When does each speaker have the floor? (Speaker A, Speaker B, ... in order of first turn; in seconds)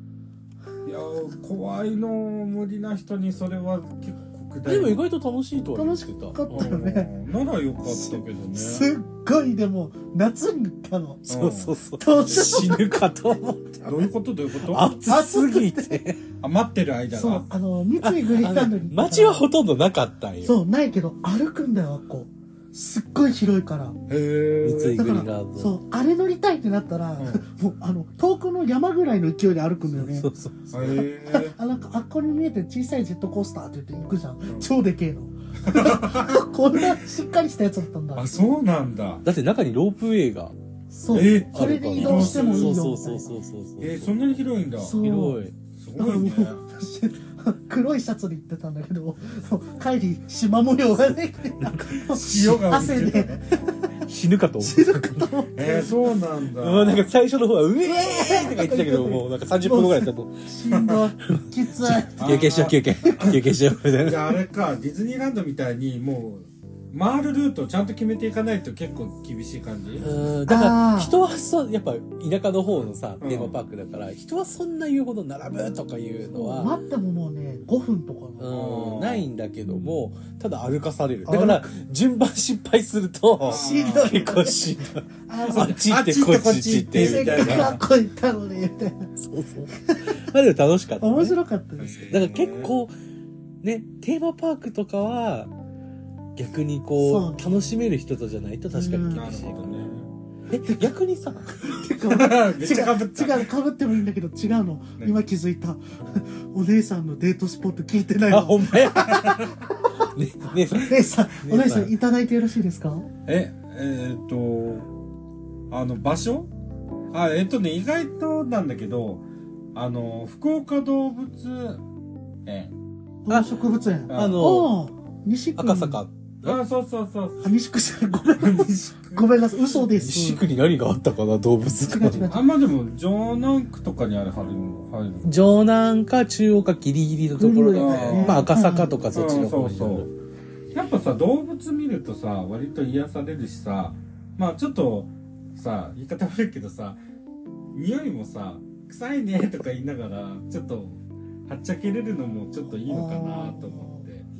Speaker A: 0.8-5.0, 6.5-8.9, 11.3-11.7, 13.8-15.0, 16.4-17.5, 24.1-25.0, 30.7-31.6, 35.6-36.9, 38.1-39.2, 41.1-42.8, 43.8-45.0, 45.8-46.6, 52.1-53.4, 55.5-57.0, 60.7-61.0, 62.2-63.4, 64.0-70.0, 73.2-73.5, 78.5-79.3, 83.4-84.1, 85.5-87.8, 91.8-92.7, 99.1-100.1, 102.1-103.5, 113.2-114.9, 115.7-116.5, 117.1-121.8, 122.4-122.7, 124.1-124.5, 126.4-127.5, 128.4-129.3, 132.3-135.3, 137.8-138.4, 139.1-140.1, 140.7-147.0, 147.7-154.3
Speaker B: 4.7-6.7, 11.3-14.1, 14.6-16.2, 18.0-20.5, 24.6-25.7, 29.9-30.9, 39.2-40.5, 41.2-44.1, 45.0-45.5, 51.6-52.0, 54.0-55.3, 56.6-60.4, 61.3-64.4, 70.0-76.8, 78.4-87.7, 89.2-91.4, 92.1-92.9, 93.6-95.5, 96.3-99.7, 100.5-101.6, 108.3-111.9, 124.1-124.7, 125.5-126.6, 130.0-132.3, 135.2-140.1
Speaker C: 5.7-7.1, 7.8-11.4, 12.0-13.0, 15.1-16.0, 17.1-19.4, 20.4-24.0, 24.9-30.3, 31.3-38.2, 40.9-43.4, 44.8-45.4, 46.0-53.9, 54.6-55.9, 57.8-62.2, 70.5-71.2, 76.3-78.6, 81.3-81.7, 83.4-85.8, 86.9-89.1, 91.0-92.1, 97.0-97.7, 98.7-99.2, 100.6-100.9, 101.6-110.1, 110.8-113.1, 123.2-126.0, 127.4-130.4, 131.8-132.5, 137.4-138.9, 152.9-154.0